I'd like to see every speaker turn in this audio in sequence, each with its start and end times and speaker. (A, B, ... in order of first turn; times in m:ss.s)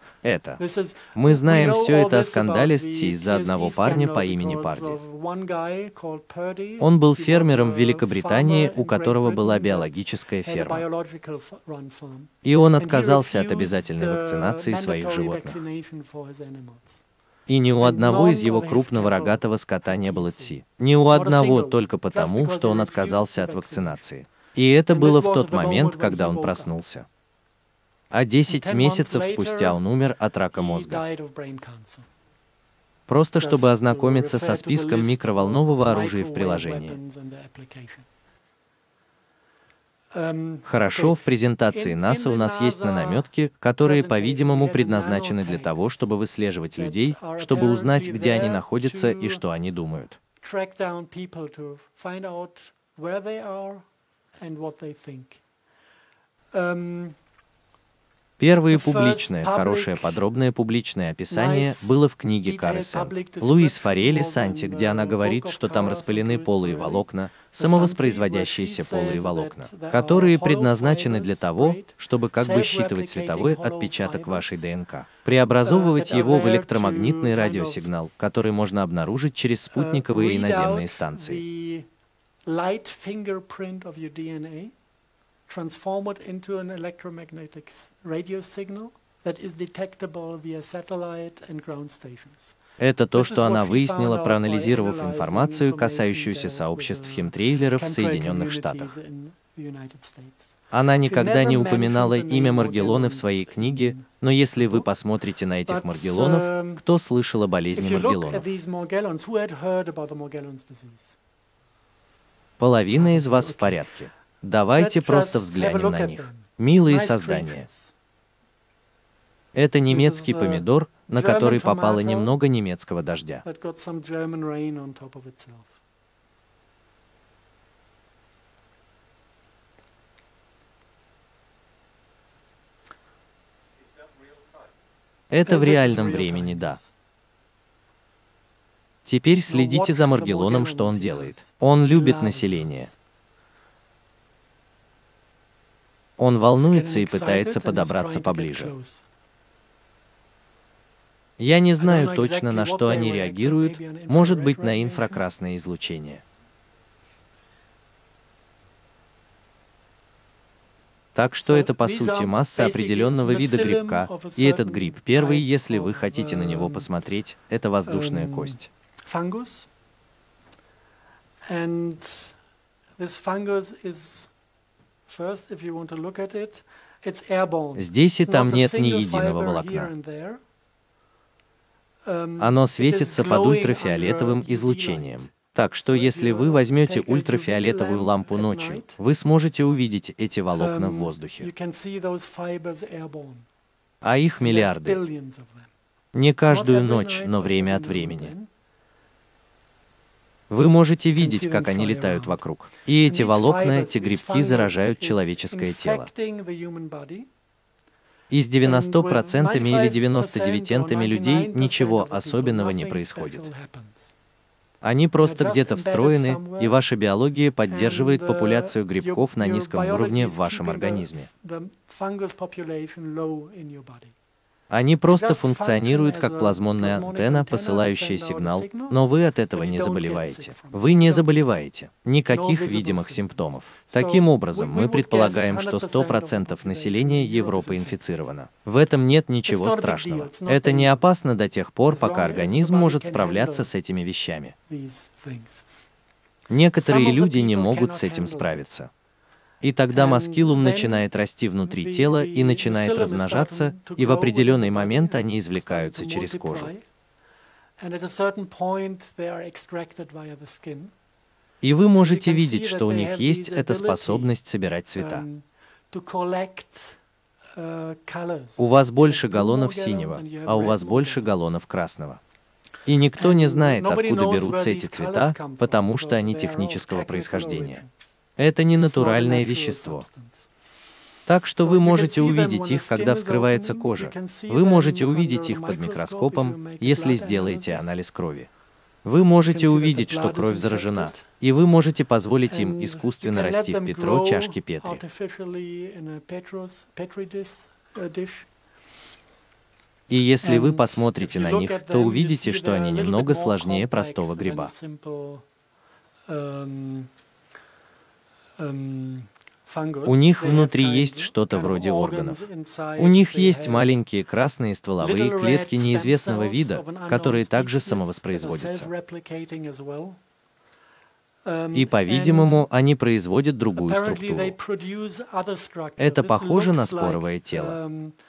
0:00.2-0:00.6 A
0:00.6-0:17.0 B
0:01.2-0:05.0 A
0:06.8-0:10.9 A
0:12.4-0:15.6 A
0:17.5-0:27.1 A
0:17.8-0:24.0 B
0:24.9-0:26.8 B
0:28.1-0:31.0 A
0:28.5-0:29.8 B
0:30.5-0:32.1 B
0:33.1-0:37.0 A
0:33.4-0:38.1 B
0:40.1-0:43.3 B
0:40.7-0:50.2 A
0:43.8-0:46.1 B
0:46.8-0:49.4 B
0:50.4-0:53.8 B
0:54.4-0:55.4 B
0:56.5-0:57.2 B
0:58.4-1:21.4 A
0:58.6-1:00.2 B
1:01.3-1:14.6 B
1:15.6-1:17.9 B
1:19.7-1:21.9 B
1:22.5-1:24.7 B
1:25.5-1:32.6 B
1:32.8-1:38.9 A
1:33.1-1:44.9 B
1:40.7-1:48.5 A
1:45.7-1:46.8 B
1:47.7-1:51.2 B
1:52.6-1:57.6 A
1:52.9-1:53.8 B
1:54.8-1:57.9 B
1:59.6-2:03.4 A
1:59.9-2:02.3 B
2:03.4-2:05.8 B
2:15.3-2:16.8 A
2:15.4-2:16.9 B
2:19.0-2:22.9 A
2:19.5-2:23.0 B
2:26.2-2:28.7 A
2:26.6-2:29.0 B
2:31.4-2:36.2 A
2:31.8-2:35.2 B
2:41.2-2:48.7 A
2:41.4-2:46.9 B
2:47.8-2:49.7 B
2:51.5-2:52.4 B
2:53.0-2:54.3 B
2:55.1-3:00.4 B
2:57.8-2:59.9 A
3:02.0-3:09.0 B
3:02.4-3:11.5 A
3:10.5-3:13.5 B
3:14.0-3:15.0 A
3:14.4-3:15.7 B
3:16.1-3:18.3 A
3:16.5-3:18.5 B
3:20.5-3:26.1 A
3:21.2-3:22.4 B
3:23.0-3:27.3 B
3:28.3-3:33.5 A
3:28.6-3:34.1 B
3:34.8-3:41.3 A
3:35.2-3:36.8 B
3:37.7-3:44.1 B
3:44.7-4:04.6 A
3:45.1-3:51.6 B
3:52.3-3:58.0 B
3:59.5-4:01.0 B
4:01.8-4:03.7 B
4:04.7-4:05.6 B
4:06.5-4:08.9 A
4:06.8-4:08.6 B
4:09.6-4:16.7 A
4:09.9-4:11.1 B
4:11.7-4:16.8 B
4:17.8-4:20.9 B
4:21.6-4:25.2 A
4:22.0-4:24.3 B
4:25.0-4:27.0 B
4:27.6-4:31.6 B
4:28.6-4:32.2 A
4:32.8-4:37.8 A
4:33.2-4:37.9 B
4:38.4-4:40.0 A
4:38.8-4:40.5 B
4:41.3-4:48.5 A
4:41.6-4:48.0 B
4:49.0-4:55.0 A
4:49.4-4:51.3 B
4:52.5-4:58.5 B
5:00.1-5:04.7 A
5:00.4-5:05.4 B
5:06.3-5:07.1 B
5:08.6-5:14.0 B
5:10.0-5:12.4 A
5:13.0-5:18.9 A
5:15.0-5:20.2 B
5:21.4-5:22.7 B
5:21.7-5:24.6 A
5:23.8-5:28.2 B
5:26.0-5:27.8 A